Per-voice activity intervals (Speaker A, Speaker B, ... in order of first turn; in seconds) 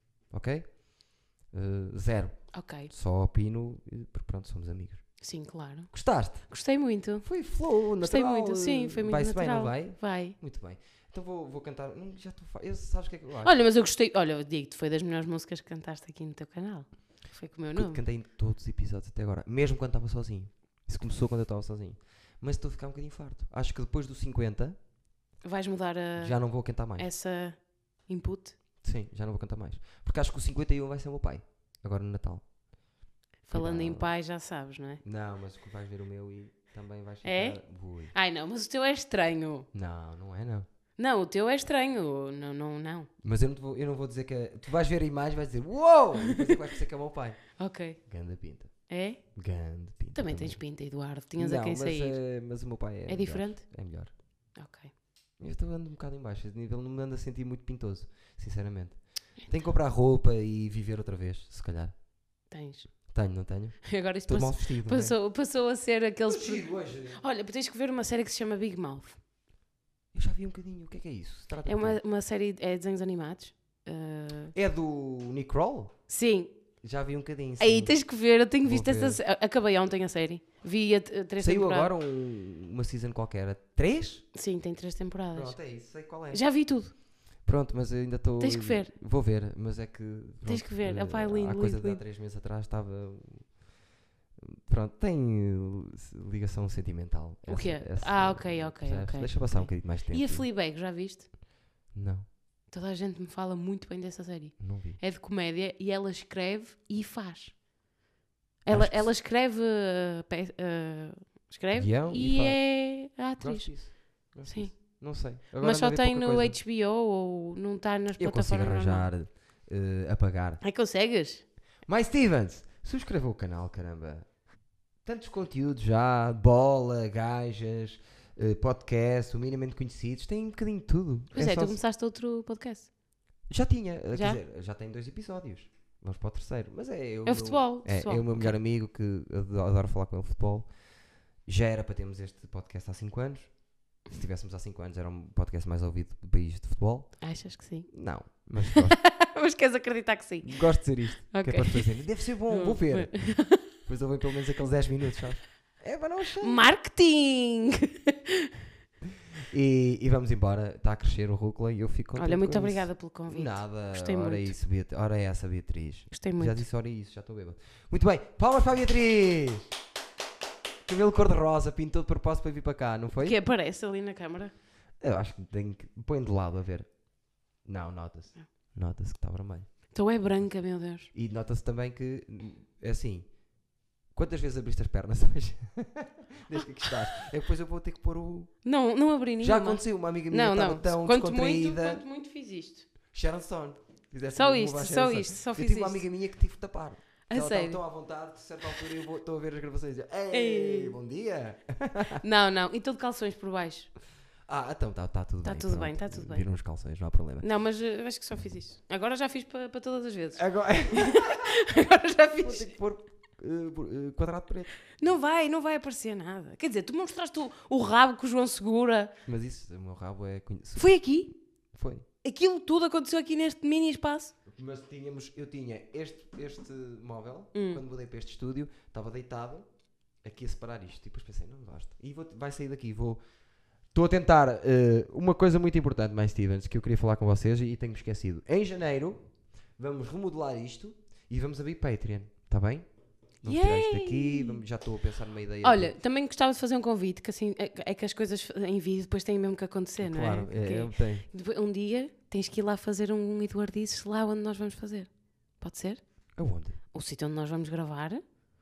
Speaker A: 0.3-0.8, 1.5-5.0, 5.9-6.5, 7.2-13.5, 17.8-24.8, 26.2-27.1, 28.8-32.5, 33.5-34.1, 35.0-38.1, 39.7-40.7, 43.2-47.5, 48.1-48.7, 49.4-50.6, 51.4-54.1, 55.4-61.9, 63.1-65.2, 66.3-67.2, 70.1-72.0, 74.5-75.9, 76.8-78.0, 78.6-79.2, 81.4-84.2, 85.3-86.4, 87.5-93.6, 94.4-100.5, 101.9-102.3, 104.6-105.0, 108.7-109.1, 111.7-112.7, 113.4-116.6, 118.2-120.6, 121.9-124.3, 125.0-131.8, 133.5-140.7, 141.5-147.3, 147.9-149.0, 150.4-156.6, 159.4-169.7, 170.9-173.4, 175.0-176.9, 177.6-179.7, 181.1-183.3, 184.1-188.5, 189.4-192.0, 193.1-202.2, 204.5-207.5, 210.4-211.5, 212.4-214.8, 219.2-221.1, 221.7-222.1, 224.5-229.7, 230.2-233.2, 233.9-239.2, 239.8-242.9, 243.4-245.9, 250.0-251.3, 256.4-256.8
Speaker B: 2.5-2.9, 5.2-7.3, 8.0-10.4, 13.4-18.0, 25.4-26.4, 27.0-28.6, 33.5-35.0, 37.2-37.6, 38.1-39.7, 41.0-43.1, 47.6-48.0, 48.9-49.2, 50.1-52.2, 53.1-53.7, 54.6-54.9, 62.5-62.9, 63.8-69.2, 71.7-74.5, 76.1-76.5, 77.6-81.9, 84.3-85.6, 86.3-86.9, 88.4-88.9, 90.5-92.0, 97.5-101.3, 102.7-107.6, 108.7-115.0, 115.6-119.1, 120.6-121.4, 131.3-132.9, 134.1-134.4, 137.3-138.6, 147.2-147.9, 148.6-153.7, 156.4-158.5, 162.2-164.6, 166.1-166.6, 173.2-174.5, 179.9-181.1, 188.7-192.9, 194.3-196.0, 197.3-197.8, 200.3-201.0, 202.2-203.9, 205.4-206.4, 207.4-212.7, 215.0-219.1, 220.8-221.3, 222.2-224.3, 227.5-227.8, 243.4-244.6, 245.6-256.0, 256.9-258.2